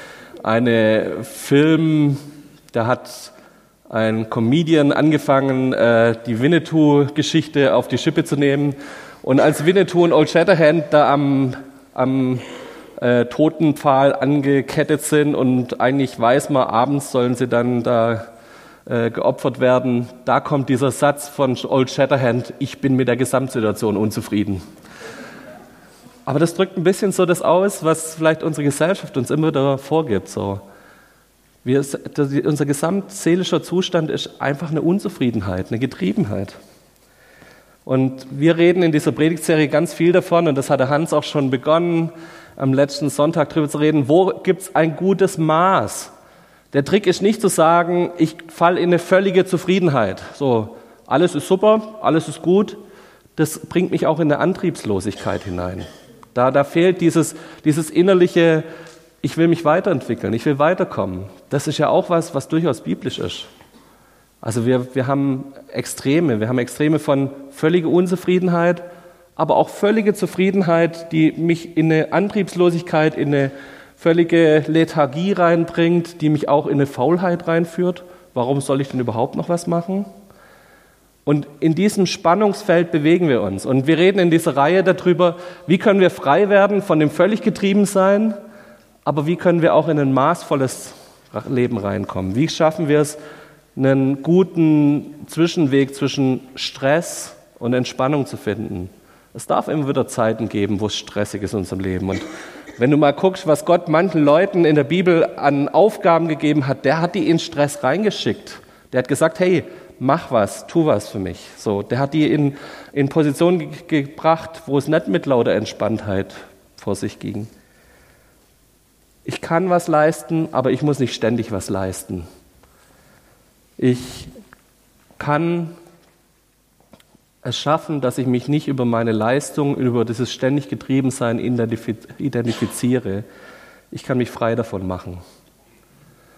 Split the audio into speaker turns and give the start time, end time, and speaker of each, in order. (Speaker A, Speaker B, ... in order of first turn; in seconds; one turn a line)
Speaker A: 0.4-3.3
Speaker A: 3.9-12.4
Speaker A: 13.0-18.2
Speaker A: 18.9-24.6
Speaker A: 26.2-30.6
Speaker A: 31.6-36.6
Speaker A: 37.8-46.1
Speaker A: 46.7-52.8
Speaker A: 53.4-58.6
Speaker A: 59.2-63.5
Speaker A: 64.4-68.8
Speaker A: 69.3-80.1
Speaker A: 81.2-88.4
Speaker A: 89.0-93.2
Speaker A: 93.8-102.2
Speaker A: 102.8-117.5
Speaker A: 119.2-122.3
Speaker A: 123.8-124.3
Speaker A: 125.2-125.7
Speaker A: 127.4-133.2
Speaker A: 133.9-135.2